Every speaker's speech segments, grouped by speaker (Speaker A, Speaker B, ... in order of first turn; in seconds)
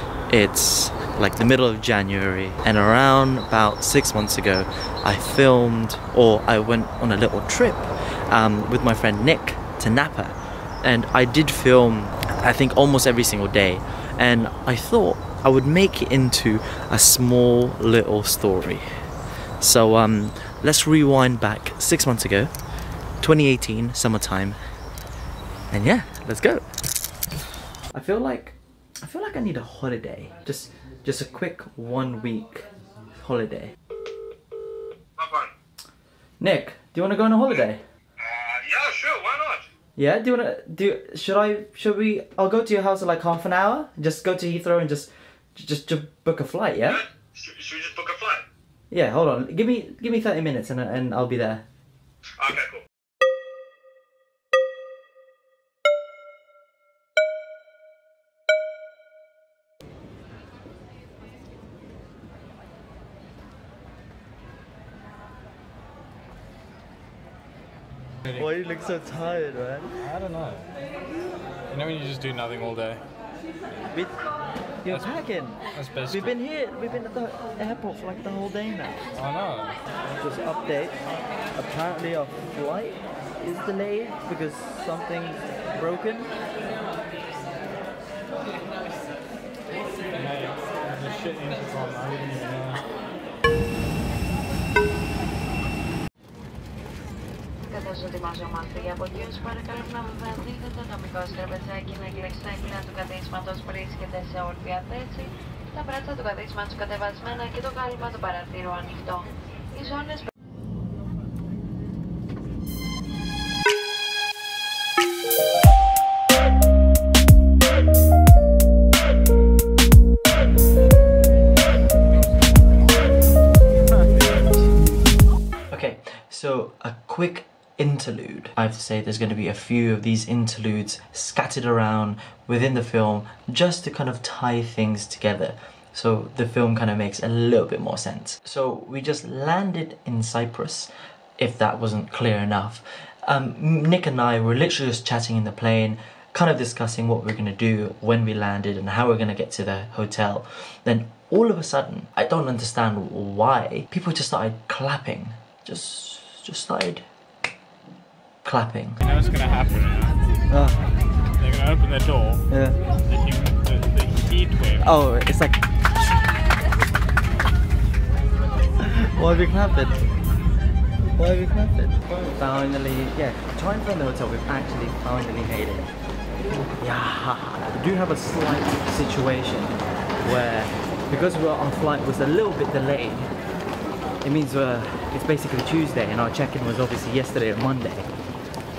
Speaker A: 0.3-18.9, 19.6-22.5, 23.2-24.6, 25.7-26.6, 27.9-33.8, 36.4-37.8, 40.0-47.0, 48.9-51.6, 68.3-70.0, 73.9-74.2, 74.8-79.1, 80.2-81.0, 81.5-86.3, 125.7-157.1, 158.4-159.0, 160.5-160.8, 162.5-162.8, 164.8-165.6, 168.8-170.1, 171.2-175.9, 176.8-183.3, 184.2-188.1
Speaker B: 35.2-35.5, 38.2-39.7, 46.9-48.5, 52.4-52.8
Speaker C: 70.0-70.7, 71.7-73.0, 75.7-76.3, 79.2-79.8, 90.1-92.9, 159.0-160.2, 161.4-162.5, 163.1-164.9
Speaker D: 97.7-110.2